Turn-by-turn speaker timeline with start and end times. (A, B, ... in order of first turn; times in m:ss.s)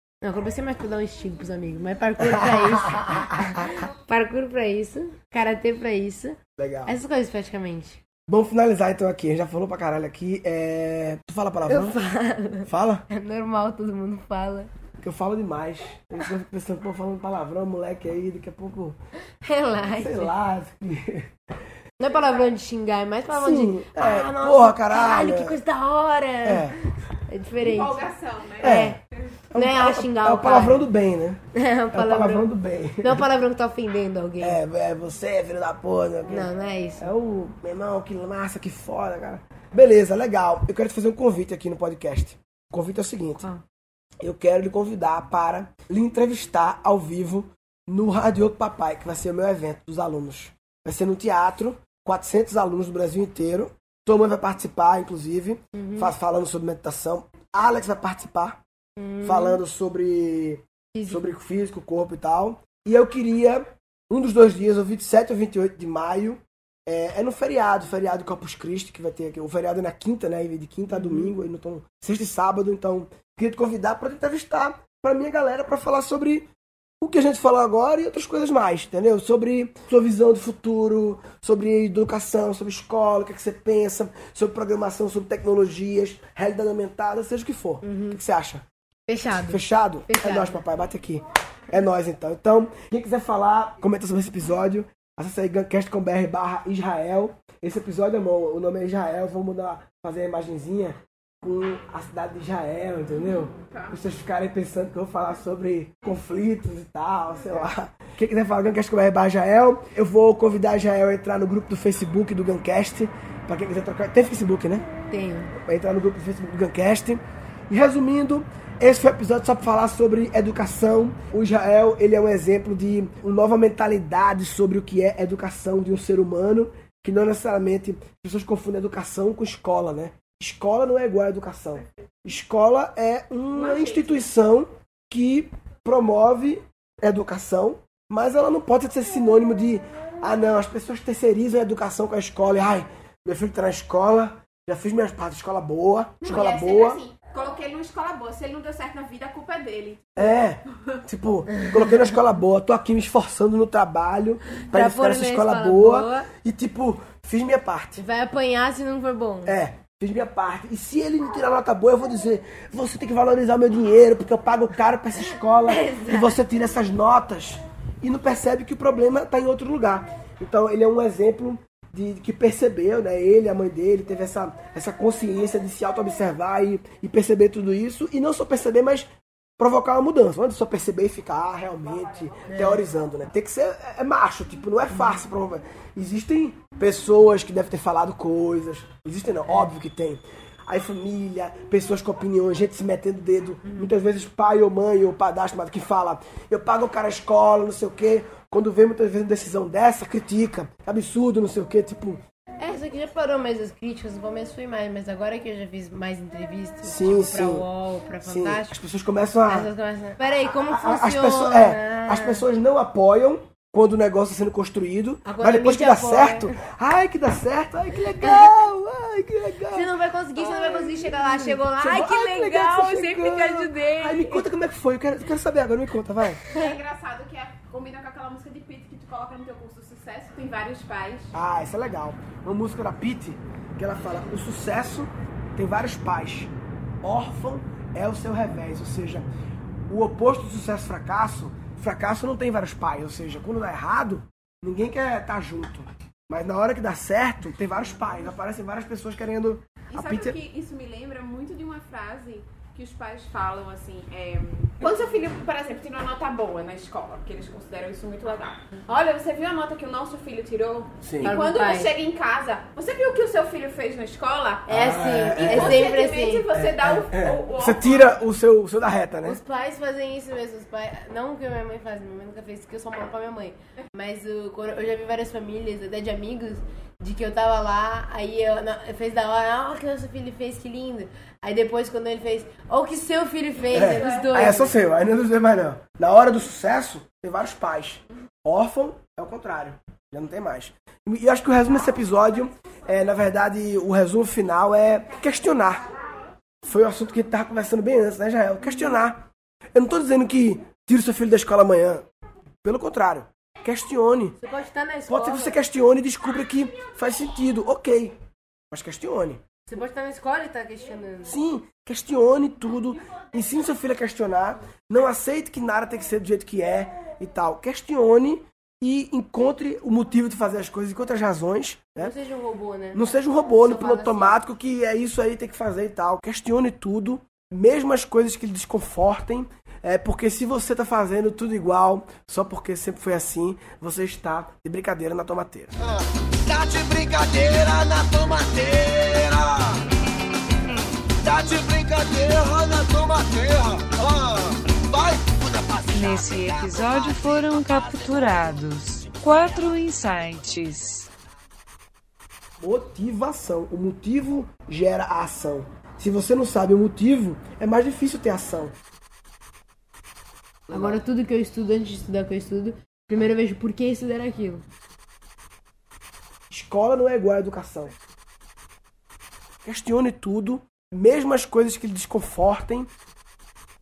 0:00.2-0:08.0 A
0:02.2-0:03.8 B
0:06.6-0:06.9 B
0:08.3-0:12.0 B
0:11.7-0:14.7 A
0:12.6-0:13.1 B
0:15.0-0:19.0 B
0:19.4-0:20.3 A
0:19.9-0:21.3 B
0:22.0-0:28.1 A
0:23.3-0:25.6 B
0:26.4-0:26.8 B
0:27.6-0:28.8 C
0:28.6-0:29.0 A
0:28.6-0:29.0 B
0:29.5-0:31.4 B
0:29.5-0:30.9 A
0:31.5-0:34.6 A
0:31.9-0:33.3 B
0:34.4-0:43.5 B
0:36.3-0:37.1 A
0:44.2-0:58.6 B
0:55.7-0:56.1 A
0:59.0-0:59.6 A
0:59.2-1:16.5 B
1:00.9-1:01.3 A
1:10.9-1:11.3 A
1:17.0-1:28.6 B
1:27.8-1:28.2 A
1:29.1-1:30.6 A
1:29.4-1:54.9 B
1:55.1-1:55.5 A
1:55.6-2:27.0 B
2:13.6-2:14.3 C
2:26.2-2:31.0 C
2:30.2-2:38.0 B
2:34.7-2:36.3 A
2:38.0-2:39.6 A
2:39.4-3:22.2 B
2:45.3-2:46.4 A
3:02.5-3:02.9 A
3:04.9-3:05.2 A
3:13.6-3:13.9 A
3:22.6-3:28.8 A
3:26.8-3:27.6 B
3:28.2-3:29.7 B
3:29.5-3:32.4 A
3:30.4-3:46.4 B
3:35.2-3:36.6 A
3:38.2-3:38.5 A
3:39.7-3:44.5 A
3:46.4-3:46.8 A
3:46.4-3:51.3 C
3:51.3-3:56.5 B
3:57.0-3:59.3 B
3:59.9-4:10.4 B
4:09.9-4:24.8 C
4:21.0-4:21.3 B
4:21.2-4:21.9 A
4:24.7-4:26.5 A
4:24.7-4:25.9 B
4:25.3-4:28.2 C
4:26.6-4:29.4 B
4:29.2-4:44.8 A
4:43.7-4:55.9 B
4:43.8-4:44.7 C
4:56.6-5:02.1 B
5:02.6-5:04.4 B
5:04.4-5:05.6 A
5:05.1-5:08.2 B
5:08.7-5:09.4 B
5:09.7-5:11.4 A
5:11.2-5:22.1 B
5:22.0-5:24.4 A
5:22.9-5:35.8 B
5:36.5-5:39.3 B
5:36.5-5:39.7 D
5:41.2-5:45.6 D
5:41.4-5:42.8 B
5:43.5-5:43.8 B
5:44.5-5:45.2 B
5:45.9-5:51.1 E
5:52.6-5:58.8 B
6:00.7-6:01.0 B
6:00.7-6:04.6 A
6:06.5-6:08.0 B
6:09.6-6:12.9 B